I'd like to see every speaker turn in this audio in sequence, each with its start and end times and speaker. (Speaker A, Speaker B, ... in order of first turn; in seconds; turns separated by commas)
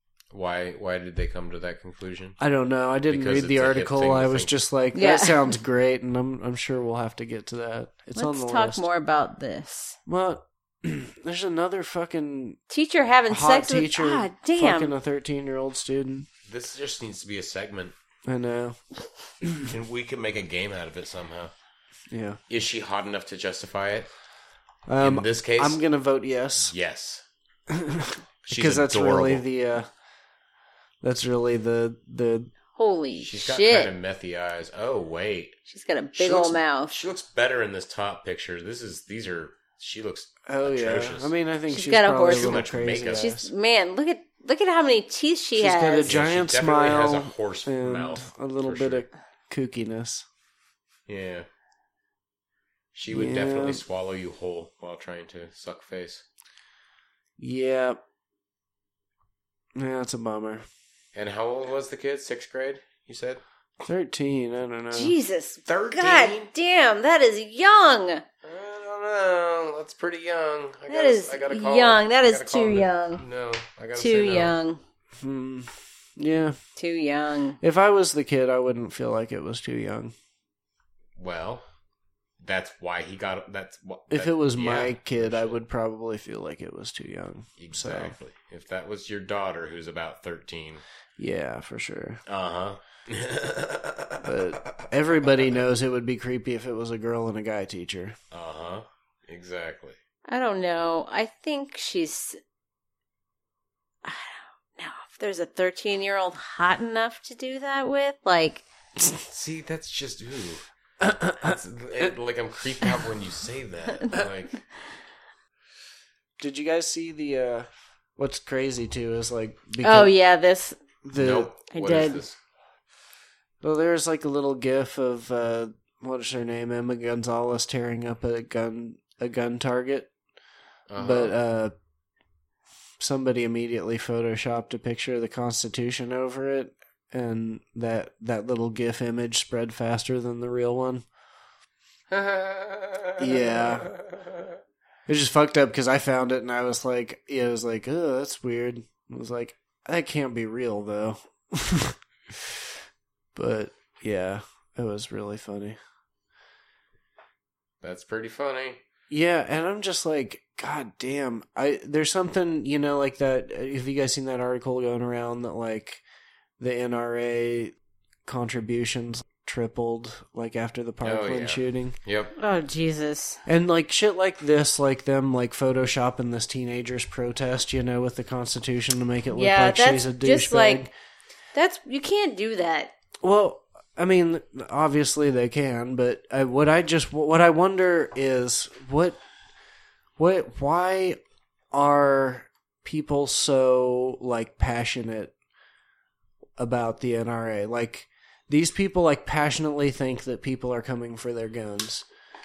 Speaker A: 0.3-2.4, Speaker B: 2.4-8.8, Speaker A: 3.1-4.5, Speaker C: 4.9-5.5, Speaker C: 8.2-10.0, Speaker B: 10.1-12.6, Speaker C: 12.7-14.9, Speaker B: 13.3-16.3, Speaker A: 16.5-17.9, Speaker B: 18.3-18.8, Speaker B: 19.4-19.7, Speaker A: 19.6-21.5, Speaker B: 22.1-22.4, Speaker A: 22.5-24.1, Speaker B: 24.9-26.7, Speaker A: 25.0-25.8, Speaker A: 26.6-27.2, Speaker B: 27.7-29.9, Speaker A: 28.5-29.4, Speaker B: 31.0-32.5, Speaker C: 32.8-33.9, Speaker A: 33.2-35.6, Speaker C: 35.7-37.0, Speaker A: 36.1-41.3, Speaker B: 40.5-43.5, Speaker C: 41.7-46.1, Speaker A: 42.3-43.3, Speaker B: 45.6-50.2, Speaker A: 46.0-49.0, Speaker A: 51.1-51.5, Speaker A: 52.9-56.2, Speaker B: 53.1-53.8, Speaker B: 57.4-58.0, Speaker B: 59.8-60.6, Speaker A: 61.1-63.4, Speaker B: 63.8-65.1, Speaker C: 64.9-68.2, Speaker A: 65.7-66.5, Speaker A: 68.4-74.5, Speaker C: 70.9-73.2, Speaker C: 74.0-74.8, Speaker B: 75.2-76.6, Speaker C: 76.8-77.6, Speaker B: 77.6-80.1, Speaker A: 81.2-81.6, Speaker A: 82.4-85.6, Speaker B: 84.1-88.1, Speaker A: 87.6-90.8, Speaker B: 91.2-92.2, Speaker A: 92.3-95.6, Speaker B: 94.2-98.2, Speaker A: 98.3-100.0, Speaker C: 100.3-102.4, Speaker C: 104.0-108.6, Speaker A: 109.2-110.7, Speaker B: 111.0-111.5, Speaker A: 111.3-114.6, Speaker B: 116.4-120.1, Speaker C: 119.8-120.8, Speaker B: 121.0-121.5, Speaker A: 121.2-122.4, Speaker C: 121.7-122.2, Speaker B: 123.6-130.1, Speaker A: 130.9-131.4, Speaker B: 130.9-131.7, Speaker B: 133.0-141.0, Speaker A: 142.1-144.6, Speaker B: 143.2-143.9, Speaker B: 145.1-152.6, Speaker B: 153.3-155.8, Speaker A: 157.8-158.8, Speaker B: 159.1-166.0, Speaker B: 166.6-167.7, Speaker B: 168.2-172.0, Speaker A: 171.0-172.3, Speaker C: 172.4-173.4, Speaker B: 173.4-180.9, Speaker C: 179.3-180.8, Speaker C: 181.5-182.9, Speaker B: 183.2-189.2, Speaker B: 190.2-191.2, Speaker B: 191.7-195.3, Speaker B: 196.6-202.0